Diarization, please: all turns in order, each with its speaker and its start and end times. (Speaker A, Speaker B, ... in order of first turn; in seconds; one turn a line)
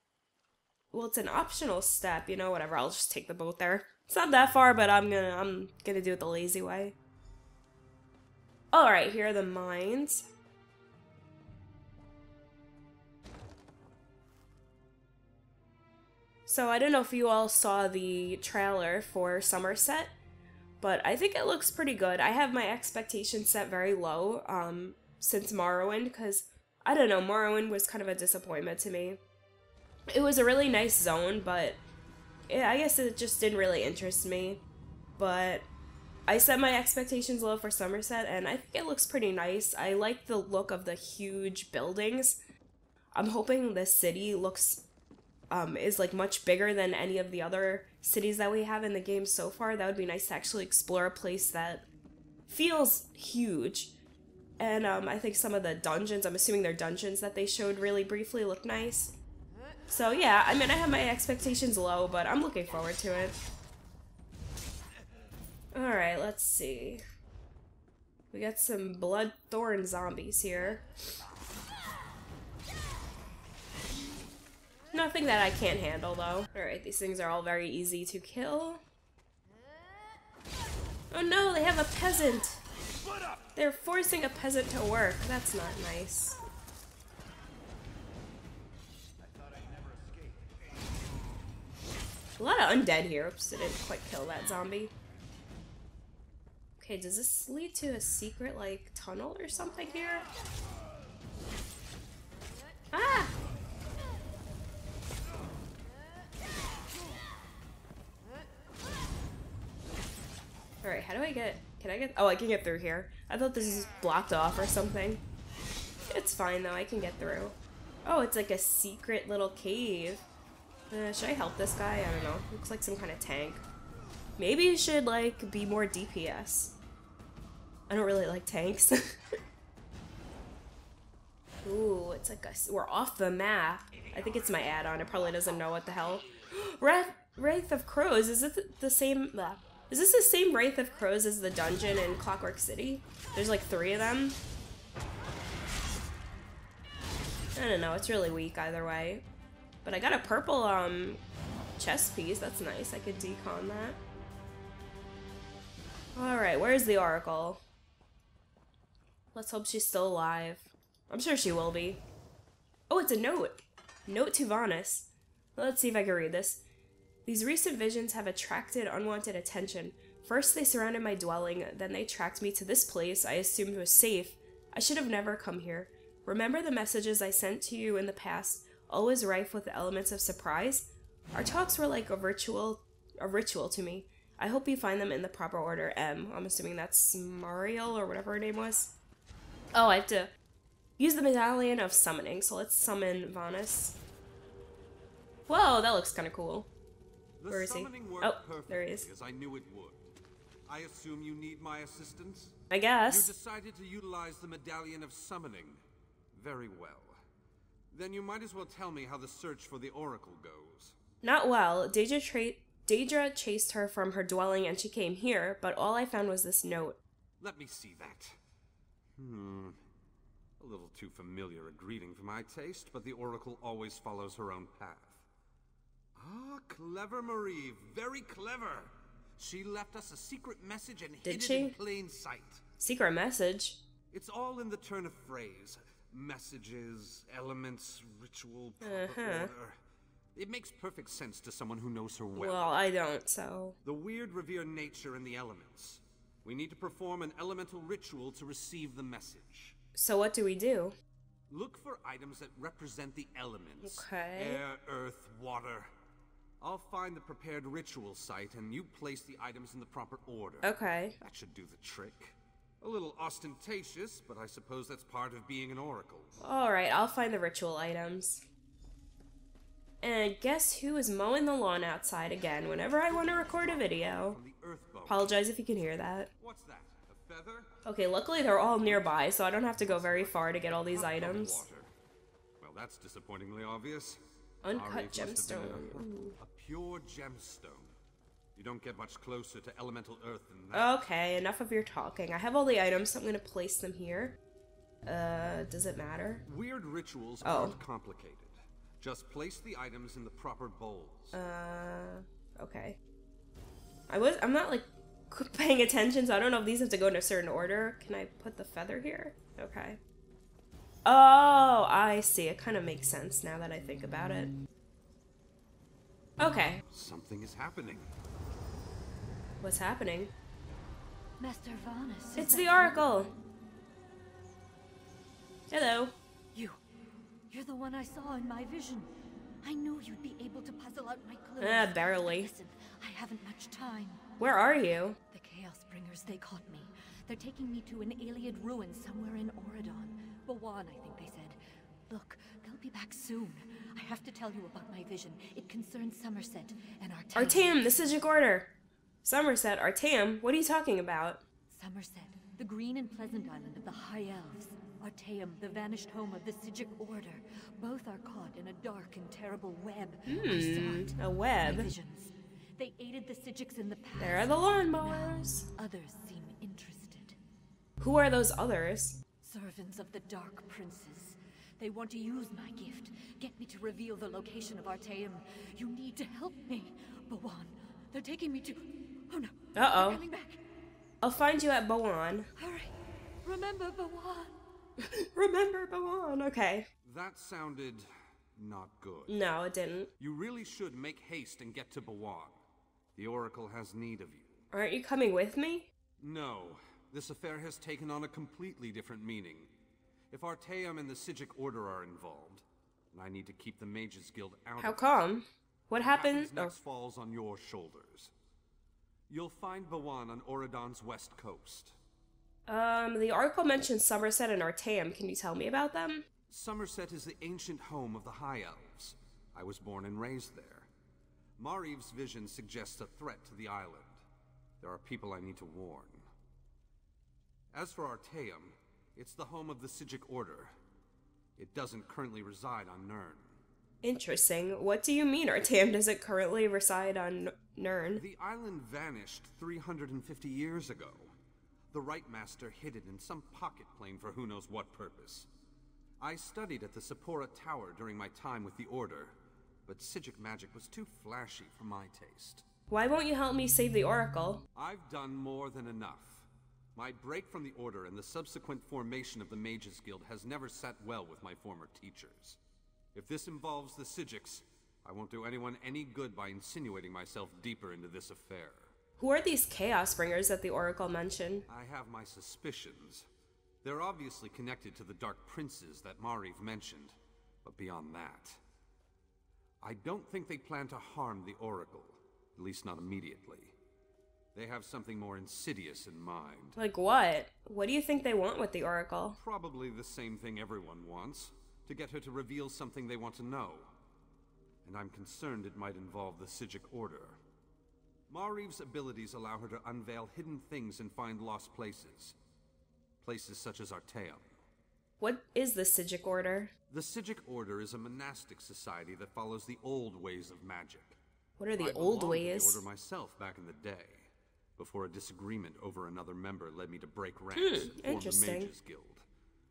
Speaker A: 0.9-6.9
Speaker A: 8.7-10.2
Speaker A: 16.5-20.1
Speaker A: 20.8-29.2
Speaker A: 30.1-31.8
Speaker A: 32.5-34.6
Speaker A: 35.2-35.7
Speaker A: 36.3-42.4
Speaker A: 43.1-44.8
Speaker A: 45.5-51.8
Speaker A: 52.5-53.9
Speaker A: 54.6-59.1
Speaker A: 59.9-63.4
Speaker A: 65.7-67.0
Speaker A: 68.3-70.8
Speaker A: 74.9-78.8
Speaker A: 81.1-82.6
Speaker A: 83.5-86.4
Speaker A: 92.4-94.9
Speaker A: 96.8-100.2
Speaker A: 102.9-103.3
Speaker A: 110.8-115.2
Speaker A: 116.1-120.2
Speaker A: 120.9-123.6
Speaker A: 124.4-126.8
Speaker A: 127.9-129.1
Speaker A: 131.6-144.4
Speaker A: 147.6-149.2
Speaker A: 149.8-151.2
Speaker A: 151.8-154.0
Speaker A: 156.2-157.6
Speaker A: 159.3-162.0
Speaker A: 162.9-166.6
Speaker A: 167.2-188.9
Speaker A: 189.7-190.3
Speaker A: 191.0-194.0
Speaker A: 195.5-196.7
Speaker B: 197.4-200.1
Speaker A: 197.5-199.1
Speaker B: 200.7-207.2
Speaker A: 202.7-203.3
Speaker B: 207.9-211.0
Speaker A: 211.2-217.0
Speaker B: 217.4-218.4
Speaker B: 219.2-219.8
Speaker B: 220.6-225.2
Speaker B: 226.2-232.6
Speaker A: 231.2-231.7
Speaker A: 232.8-233.8
Speaker B: 234.1-239.8
Speaker A: 238.8-239.5
Speaker B: 240.3-242.8
Speaker A: 242.3-243.8
Speaker B: 243.8-249.8
Speaker A: 249.9-250.9
Speaker B: 251.5-255.9
Speaker A: 253.8-254.6
Speaker B: 256.6-266.4
Speaker A: 260.6-261.2
Speaker A: 266.4-268.4
Speaker A: 270.0-274.4
Speaker B: 273.1-275.3
Speaker A: 275.1-276.3
Speaker B: 276.4-277.7
Speaker A: 277.8-281.6
Speaker B: 278.8-281.9
Speaker B: 282.6-287.9
Speaker A: 284.6-286.4
Speaker B: 288.5-290.9
Speaker A: 290.7-294.4
Speaker A: 295.1-296.4
Speaker B: 296.4-301.4
Speaker A: 297.4-297.8
Speaker A: 301.3-303.0
Speaker A: 304.1-310.0
Speaker A: 311.0-314.5
Speaker A: 316.4-316.8
Speaker B: 316.9-318.1
Speaker A: 319.6-320.3
Speaker C: 321.4-323.0
Speaker A: 322.3-323.3
Speaker A: 325.7-326.1
Speaker C: 326.5-326.8
Speaker C: 327.5-329.1
Speaker C: 329.6-334.2
Speaker A: 331.6-332.5
Speaker A: 334.4-335.2
Speaker C: 335.3-348.1
Speaker A: 347.3-348.7
Speaker A: 349.2-351.4
Speaker C: 351.7-367.4
Speaker A: 360.3-361.9
Speaker A: 364.2-365.7
Speaker A: 368.0-369.2
Speaker C: 369.4-380.6
Speaker A: 379.7-380.2
Speaker A: 381.2-382.5
Speaker C: 382.6-382.9
Speaker C: 383.4-384.6
Speaker A: 385.0-386.9
Speaker B: 387.0-389.3
Speaker A: 389.3-390.1
Speaker B: 390.2-392.6
Speaker B: 393.1-394.6
Speaker A: 394.7-395.9
Speaker B: 396.2-399.7
Speaker B: 400.3-405.0
Speaker A: 404.8-406.7
Speaker B: 405.9-408.3
Speaker B: 409.3-411.9
Speaker A: 412.7-416.2
Speaker B: 416.5-420.9
Speaker B: 421.6-424.2
Speaker B: 424.8-426.3
Speaker B: 427.7-430.7
Speaker B: 431.6-433.6
Speaker A: 434.0-438.2
Speaker B: 438.1-441.3
Speaker B: 441.9-445.5
Speaker B: 446.2-452.6
Speaker A: 452.9-454.6
Speaker B: 454.7-462.6
Speaker B: 463.1-468.9
Speaker A: 469.2-471.6
Speaker B: 471.7-473.3
Speaker B: 473.8-478.6
Speaker B: 479.8-483.7
Speaker B: 484.5-486.8
Speaker A: 486.8-489.4
Speaker B: 489.4-493.9
Speaker B: 494.8-497.4
Speaker B: 498.3-502.4
Speaker B: 503.2-504.6
Speaker A: 505.2-506.7
Speaker B: 506.9-511.2
Speaker A: 511.6-512.8
Speaker B: 511.7-519.2
Speaker A: 517.5-518.7